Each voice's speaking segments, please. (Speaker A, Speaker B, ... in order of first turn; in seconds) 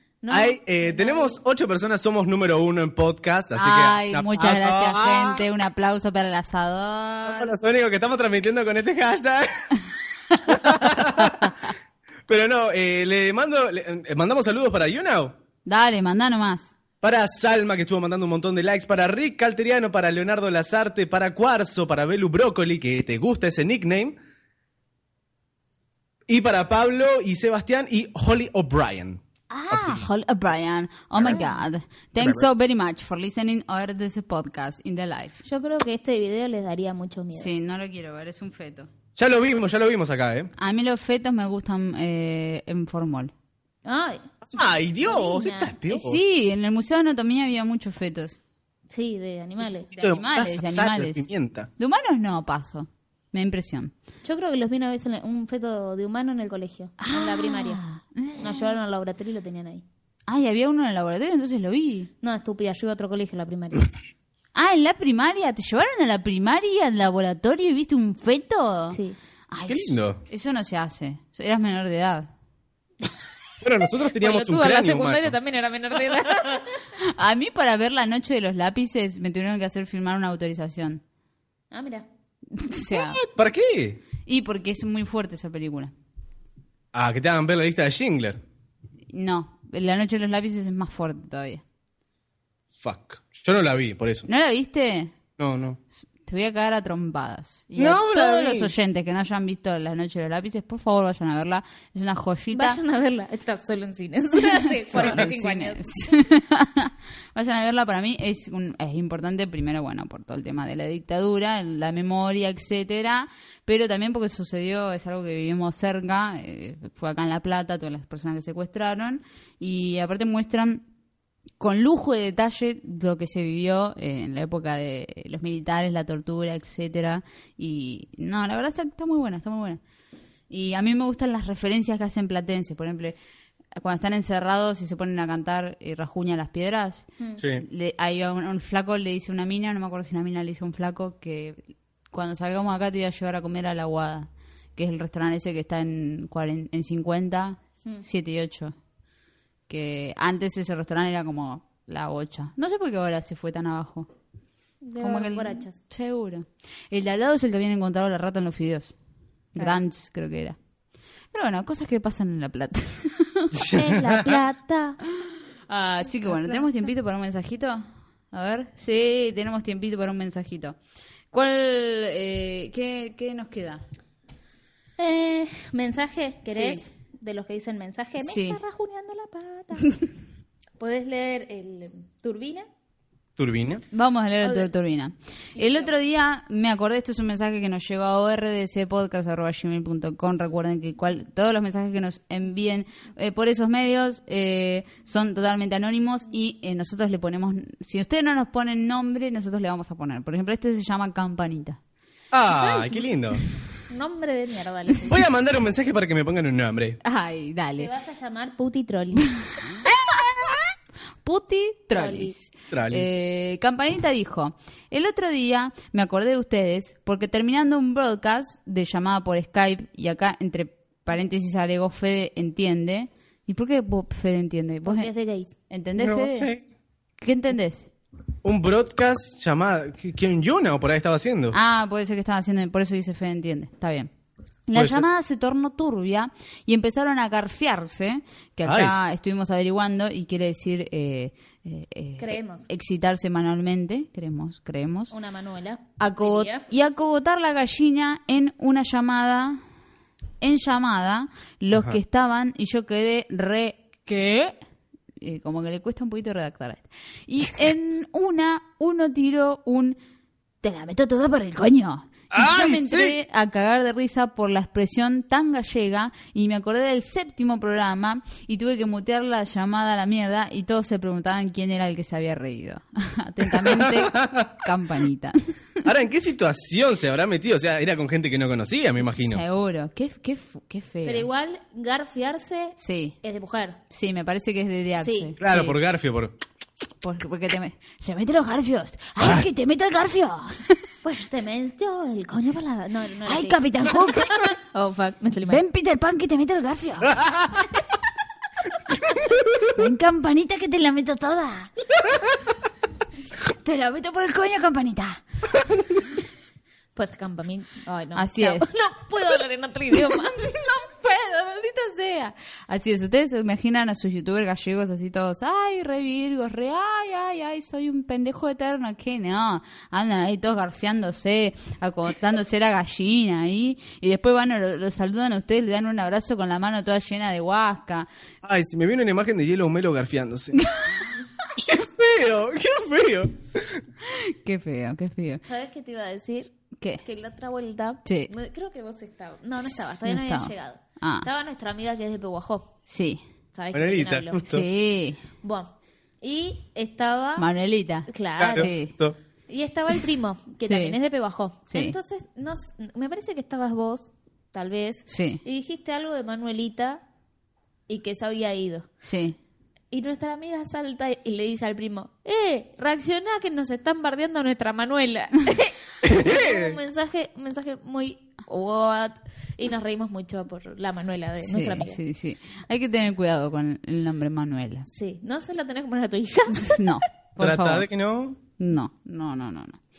Speaker A: 0.2-1.4, 35.4-37.5, 43.9-45.9, 48.9-50.2, 54.2-57.8, 58.4-59.9, 62.2-63.9, 68.9-69.2, 74.0-76.9, 81.7-82.1, 102.5-106.2, 154.8-155.8, 163.7-165.0, 175.0-180.0, 180.8-182.7, 184.4-184.7, 185.6-185.9, 203.9-205.2, 207.8-209.3, 211.9-212.3, 224.8-225.6, 242.2-242.7, 245.1-246.7, 281.0-283.8, 285.0-285.3, 291.0-295.6, 306.9-310.6, 335.4-342.8, 343.5-344.4, 345.4-347.5, 348.1-348.7, 349.5-357.0, 357.9-358.9, 359.9-372.0, 374.9-377.0
Speaker B: 0.3-5.4, 7.3-9.8, 10.4-11.6, 12.3-15.4, 17.0-24.2, 26.3-30.0, 32.2-32.5, 39.2-40.5, 44.5-46.2, 49.9-51.7, 69.7-70.2, 73.6-75.3, 82.9-84.0, 86.9-88.4, 92.8-94.3, 95.4-95.8, 97.8-98.7, 105.0-105.3, 137.4-137.7, 163.5-164.3, 183.4-183.8, 202.3-203.4, 205.1-207.0, 212.7-213.1, 226.0-226.6, 228.4-231.6, 234.8-235.1, 238.7-238.9, 262.3-263.2, 273.6-274.5, 275.8-279.4, 285.4-286.3, 328.4-330.6, 331.6-333.8, 343.7-344.6, 348.4-349.1, 366.0-366.8, 377.4-378.4
Speaker C: 3.5-7.5, 11.2-11.7, 15.7-16.7, 29.5-35.4, 37.3-38.9, 40.6-43.3, 45.9-48.4, 50.1-51.3, 51.8-53.9, 57.0-58.8, 60.3-62.1, 64.5-69.0, 69.5-72.3, 77.0-81.0, 82.5-83.2, 84.2-85.9, 89.1-91.6, 94.3-95.2, 96.2-102.8, 104.4-120.9, 121.6-129.8, 130.5-133.2, 133.8-148.8, 149.7-154.1, 155.0-158.9, 159.6-160.6, 161.3-163.5, 165.1-170.8, 171.3-173.8, 176.5-176.9, 178.2-178.6, 183.9-201.8, 207.0-207.9, 209.6-210.6, 211.2-225.1, 225.7-226.5, 227.2-227.9, 231.5-234.1, 234.7-245.1, 246.0-249.6, 250.4-254.6, 255.2-260.0, 260.6-275.9, 279.2-281.3, 282.8-283.2, 283.9-285.8, 287.0-290.8, 293.3-294.5, 295.5-297.1, 299.7-301.7, 303.4-305.2, 308.1-308.7, 310.1-328.1, 330.6-331.1, 334.0-335.4, 338.1-338.3, 339.6-341.3, 342.9-343.2, 344.5-345.2, 347.4-348.9, 350.6-351.0, 351.7-352.0, 355.1-355.4, 359.0-359.4, 371.4-374.9, 376.5-377.9, 378.6-379.8